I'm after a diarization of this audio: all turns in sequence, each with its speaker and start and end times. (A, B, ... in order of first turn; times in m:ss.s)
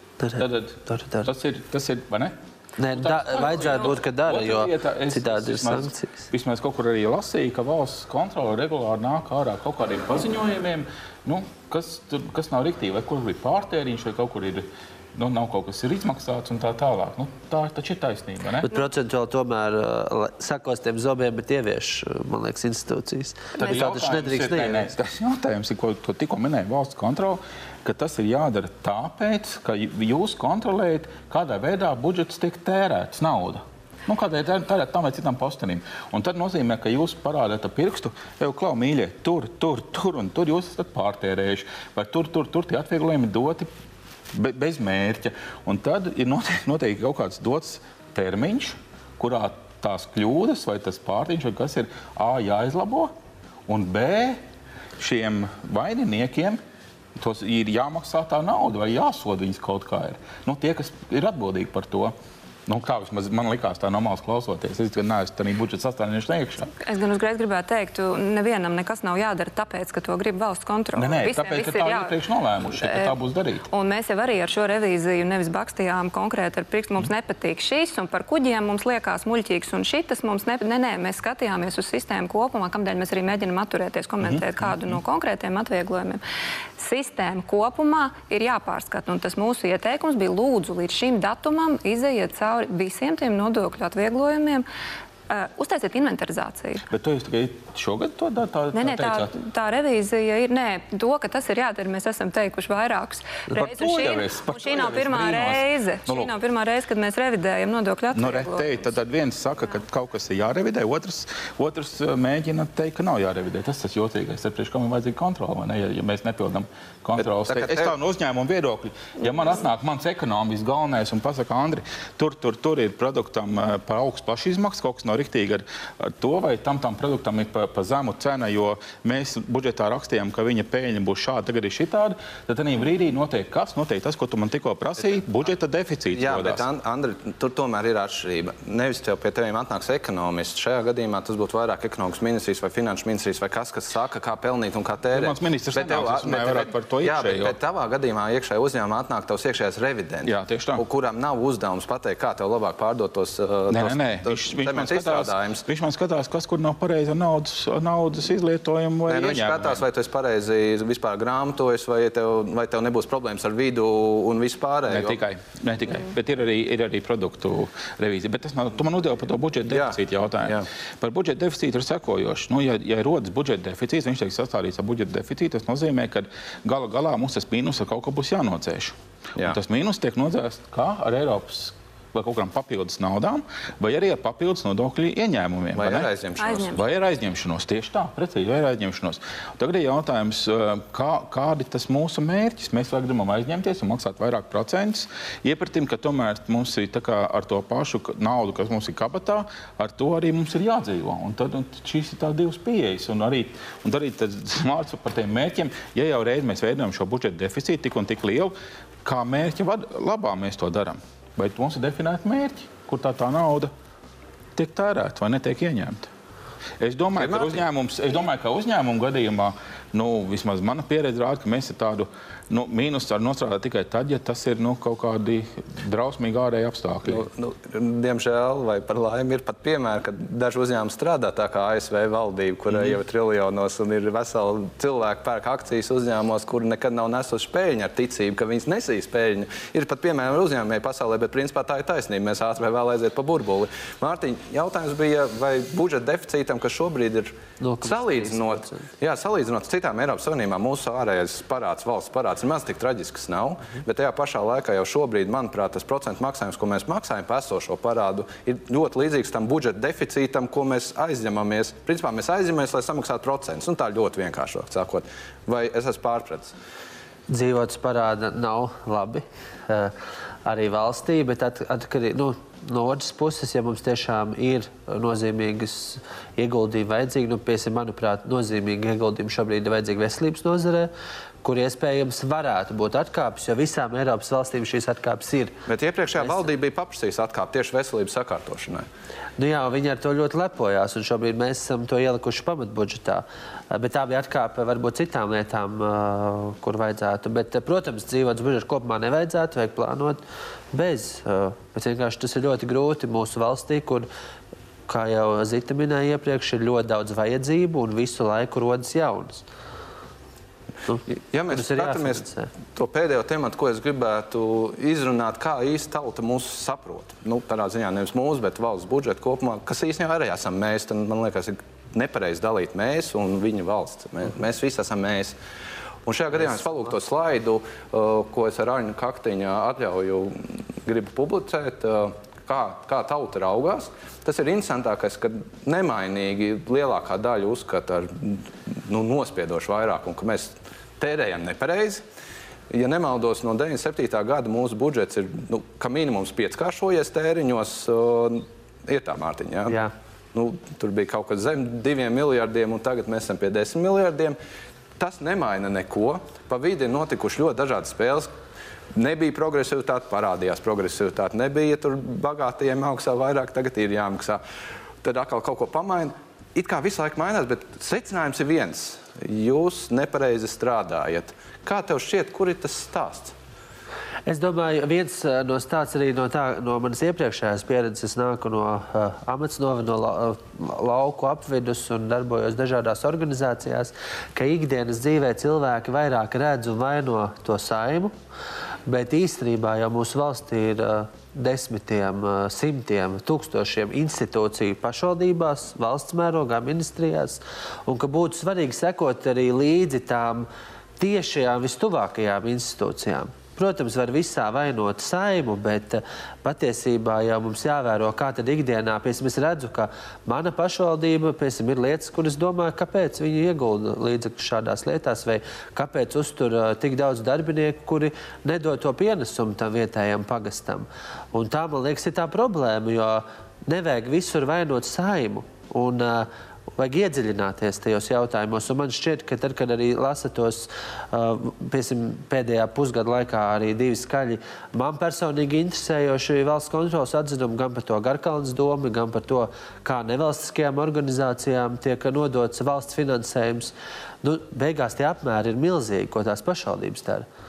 0:00.2-0:01.3 A
0:00.4-0:02.3 B
0:02.8-0:06.3 A
0:02.9-0:18.7 B
0:18.6-0:24.9 A
0:23.6-0:43.7 B
0:44.3-0:53.1 B
0:53.7-0:54.4 B
0:55.0-0:56.6 B
0:57.2-1:02.1 B
1:02.7-1:06.7 B
1:06.8-1:12.1 C
1:11.0-1:13.7 B
1:12.7-1:13.1 C
1:13.7-1:26.2 C
1:26.8-1:34.6 C
1:35.3-1:36.8 C
1:36.9-1:39.3 B
1:38.7-1:48.8 C
1:43.5-1:46.3 B
1:48.1-2:16.6 B
1:57.2-1:57.9 D
2:16.1-2:35.6 D
2:25.1-2:27.6 B
2:30.2-2:30.8 B
2:33.7-2:39.8 B
2:39.1-2:45.2 D
2:44.9-3:06.1 B
2:49.7-2:50.7 D
3:05.8-3:06.8 D
3:06.4-3:06.8 C
3:06.7-3:28.5 B
3:29.0-3:33.7 B
3:34.6-3:36.1 B
3:36.8-3:47.2 B
3:37.2-3:37.6 D
3:47.0-4:26.5 D
4:07.6-4:08.8 A
4:27.3-4:29.9 A
4:30.4-4:40.9 A
4:41.4-4:45.5 A
4:45.7-4:48.8 D
4:49.4-5:00.2 A
5:00.7-5:04.1 A
5:04.9-5:09.4 A
5:10.9-5:12.5 A
5:11.3-5:12.2 D
5:12.7-5:25.3 D
5:26.0-5:42.0 D
5:42.7-5:49.8 D
5:50.3-5:54.4 D
5:55.0-5:58.3 D
5:58.9-6:04.4 D
6:05.0-6:13.3 D
6:14.3-6:28.1 A
6:28.9-6:40.5 A
6:41.0-7:27.2 A